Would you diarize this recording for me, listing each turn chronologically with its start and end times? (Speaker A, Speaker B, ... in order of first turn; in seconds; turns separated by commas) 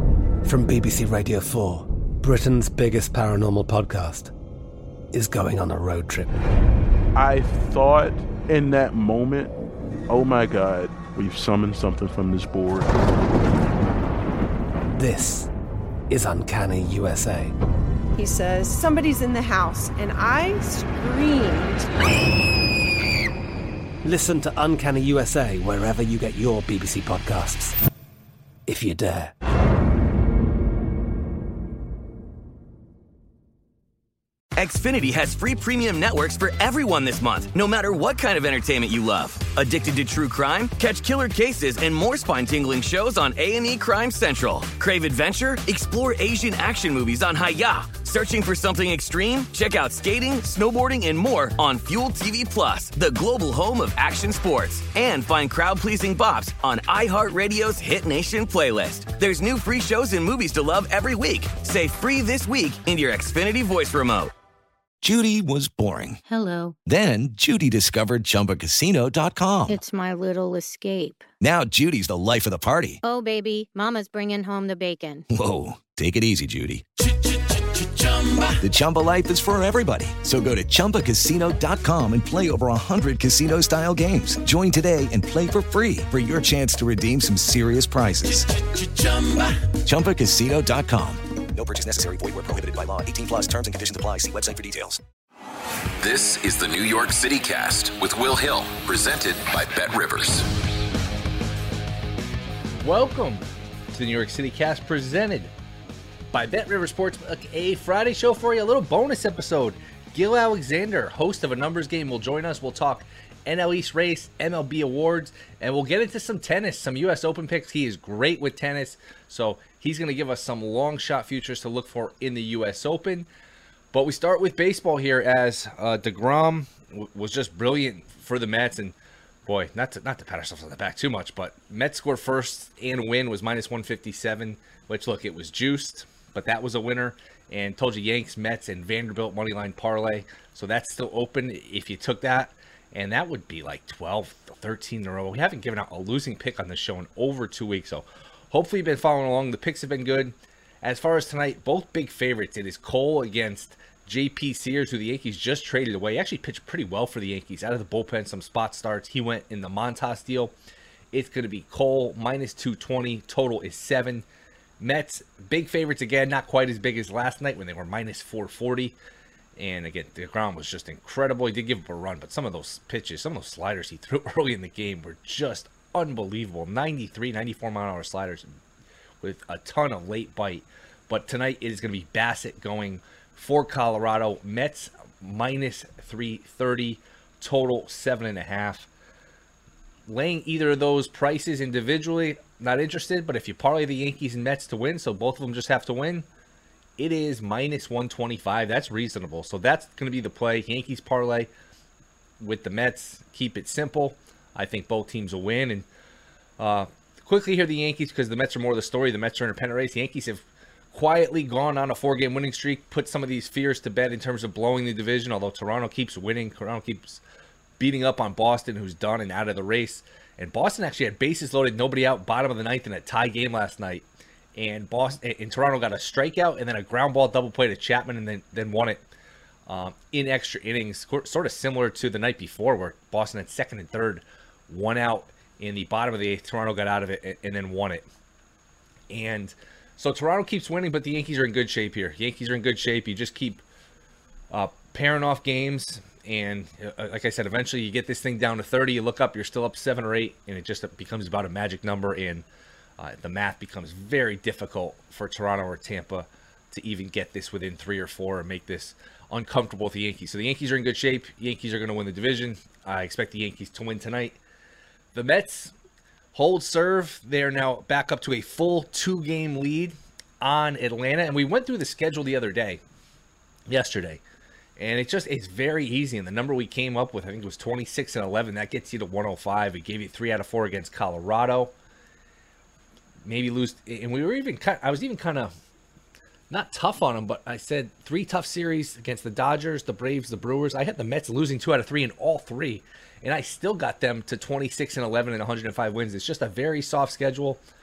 Speaker A: 0.5-4.3, Speaker A: 5.1-6.3, Speaker B: 7.1-9.5, Speaker B: 10.1-12.9, Speaker A: 14.9-15.5, Speaker A: 16.1-17.5, Speaker C: 18.2-21.9, Speaker A: 24.0-27.8, Speaker A: 28.7-29.3, Speaker D: 34.5-64.3, Speaker E: 65.0-66.2, Speaker F: 66.3-66.8, Speaker E: 66.8-69.8, Speaker F: 69.7-71.3, Speaker E: 71.4-73.0, Speaker F: 73.0-75.3, Speaker E: 75.3-76.8, Speaker C: 78.0-78.5, Speaker E: 78.6-88.5, Speaker C: 88.7-89.5, Speaker E: 89.7-91.3, Speaker G: 91.5-95.0, Speaker H: 96.0-100.5, Speaker I: 102.8-105.5, Speaker I: 106.3-123.3, Speaker I: 123.9-128.9, Speaker I: 129.4-160.5, Speaker I: 161.1-164.2, Speaker I: 164.8-168.9, Speaker I: 169.6-178.4, Speaker I: 179.2-188.9, Speaker I: 190.1-196.2, Speaker I: 197.0-201.5, Speaker I: 202.4-205.8, Speaker I: 206.6-217.2, Speaker I: 217.8-224.0, Speaker I: 224.6-229.0, Speaker I: 229.7-238.1, Speaker I: 239.1-243.6, Speaker I: 244.5-252.4, Speaker I: 253.0-264.4, Speaker I: 265.1-265.7, Speaker I: 266.3-272.8, Speaker I: 273.7-274.2, Speaker I: 274.8-281.7, Speaker I: 283.2-285.5, Speaker I: 286.5-297.6